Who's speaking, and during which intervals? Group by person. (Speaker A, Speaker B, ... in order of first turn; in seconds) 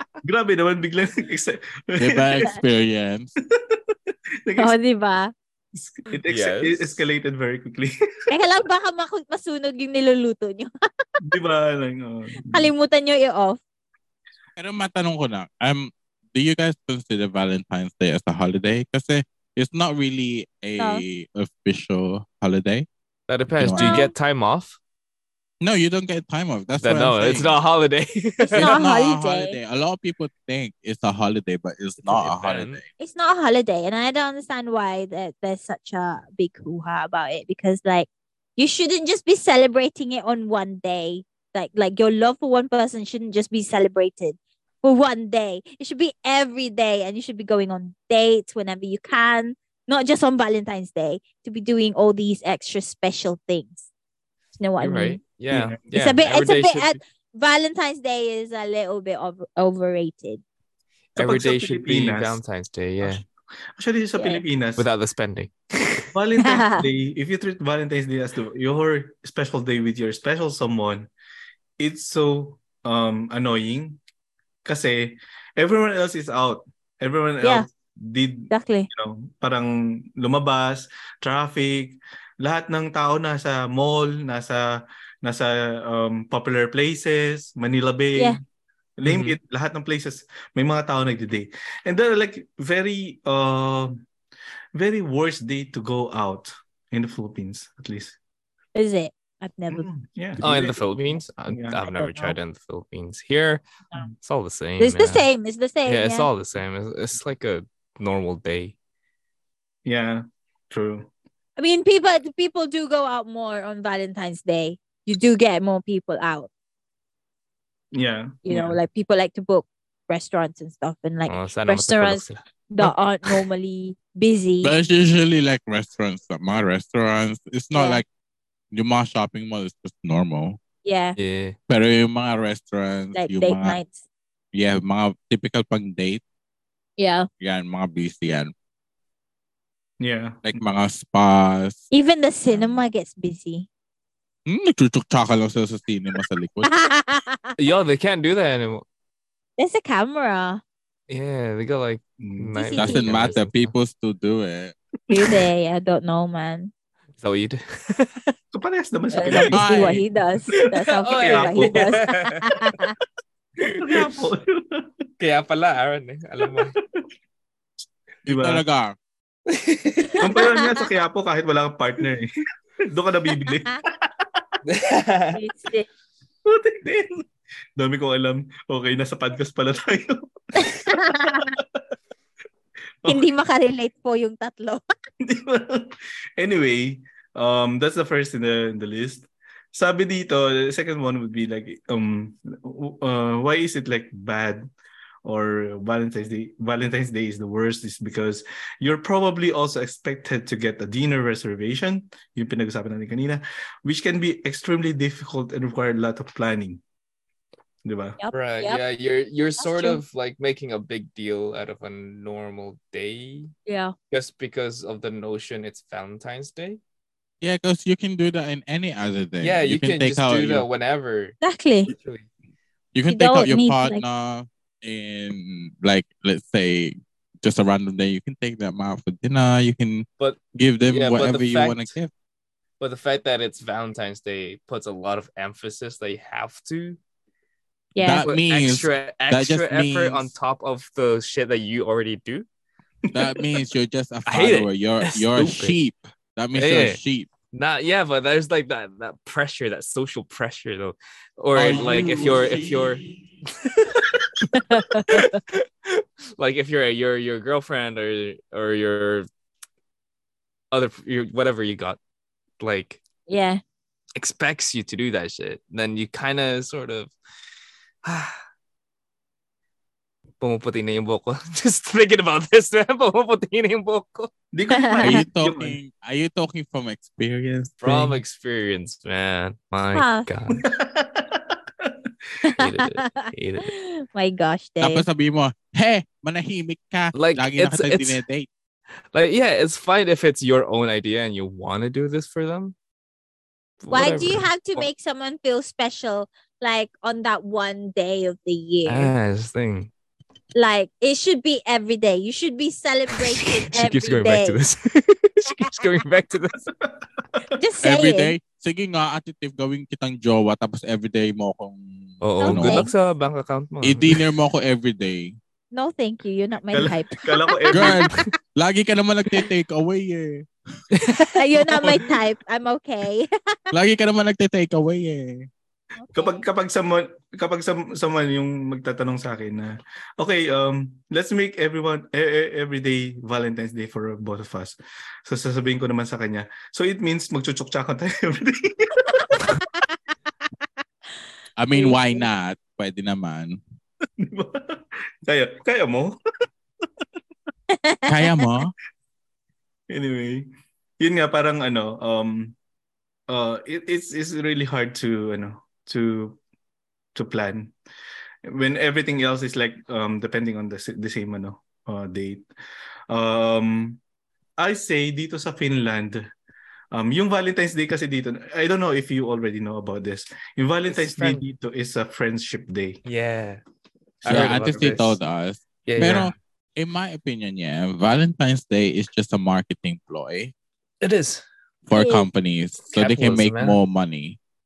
Speaker A: 0.2-2.5, 3.7-4.8, 5.8-8.3, 11.2-12.7, 55.5-55.8, 61.2-62.4, 63.0-64.8, 66.1-71.1, 71.8-74.0, 74.7-88.4, 89.0-94.0, 94.8-98.2, 99.7-100.8, 101.5-101.9, 109.8-111.1, 117.9-118.8, 140.0-140.4, 152.2-152.6, 158.5-159.7, 161.2-162.0, 163.8-164.9, 166.4-167.1, 168.3-168.6, 170.2-172.3, 172.9-174.4, 176.4-181.6, 185.2-194.7, 195.2-206.8, 207.8-208.2, 274.5-275.8, 280.5-281.9, 316.7-318.2, 326.1-339.6, 344.2-346.1, 349.9-350.5, 351.0-352.6, 353.3-356.4, 357.1-357.8, 358.5-362.5, 363.1-364.0, 364.6-366.2, 366.9-373.0, 374.2-374.9
Speaker B: 2.0-3.3, 14.6-22.9, 23.6-24.1, 25.6-27.5, 28.5-32.9, 124.6-128.1, 128.7-130.6, 131.7-133.8, 134.5-136.2, 137.4-138.5, 140.4-141.8, 144.5-146.7, 152.8-154.8, 159.5-160.0, 168.3-168.9, 217.4-220.7, 222.9-232.1, 238.0-240.3, 243.1-247.3, 251.5-253.0, 275.0-278.2, 284.8-288.5, 307.8-312.9, 313.8-315.4, 317.7-320.5, 323.7-325.5, 341.6-343.6, 348.1-348.7, 374.3-380.5, 381.9-384.4
Speaker C: 4.6-5.3, 8.3-11.1, 12.4-13.6, 20.8-21.0, 23.8-24.1, 28.5-29.6, 33.0-53.9, 54.6-55.2, 55.9-60.4, 64.2-64.4, 66.4-66.9, 77.4-77.7, 78.5-78.9, 98.8-99.9, 102.0-102.4, 104.8-106.3, 111.6-116.5, 118.5-124.7, 127.7-128.0, 130.8-131.2, 133.2-133.9, 137.0-137.3, 141.9-143.7, 146.7-147.6, 149.6-150.6, 152.5-153.2, 155.1-156.7, 159.1-162.9, 170.4-170.8, 175.3-175.9, 180.6-181.5, 183.1-184.8, 208.2-208.8, 209.6-210.0, 213.7-213.9, 221.4-221.9, 223.1-224.0, 237.9-238.2, 254.6-255.2, 263.3-263.6, 274.7-275.2, 279.9-280.3, 282.4-285.1, 293.9-299.1, 300.6-304.6, 305.5-306.0, 307.6-308.4, 312.4-312.9, 315.7-318.1, 321.4-323.6, 326.0-326.4, 341.7-342.3, 347.7-348.4, 381.9-382.3
Speaker D: 6.3-7.0, 23.3-24.8, 26.8-28.8, 32.0-32.8, 54.8-57.0, 61.2-63.2, 64.8-66.1, 89.0-89.4, 100.4-103.6, 104.2-105.3, 105.9-108.8, 121.3-122.4, 131.2-131.6, 147.6-148.8, 151.1-153.7, 157.2-158.3, 160.6-162.5, 163.6-164.3, 165.2-166.8, 169.5-170.4, 174.7-175.4, 208.3-213.5, 214.1-216.8, 219.4-222.3, 230.2-231.9, 232.8-237.0, 238.2-242.5, 244.3-245.8, 246.6-247.0, 247.5-254.1, 255.1-259.3, 260.7-262.0, 262.6-263.0, 264.2-267.1, 268.0-268.4, 270.4-274.3, 277.8-280.6, 282.6-283.7, 287.1-288.2, 289.1-292.8, 293.8-294.9, 298.9-299.9, 303.1-306.6, 312.2-314.2, 320.9-321.4, 370.9-371.4, 373.1-373.6, 374.2-375.2, 375.9-376.4, 381.0-381.4, 382.9-383.8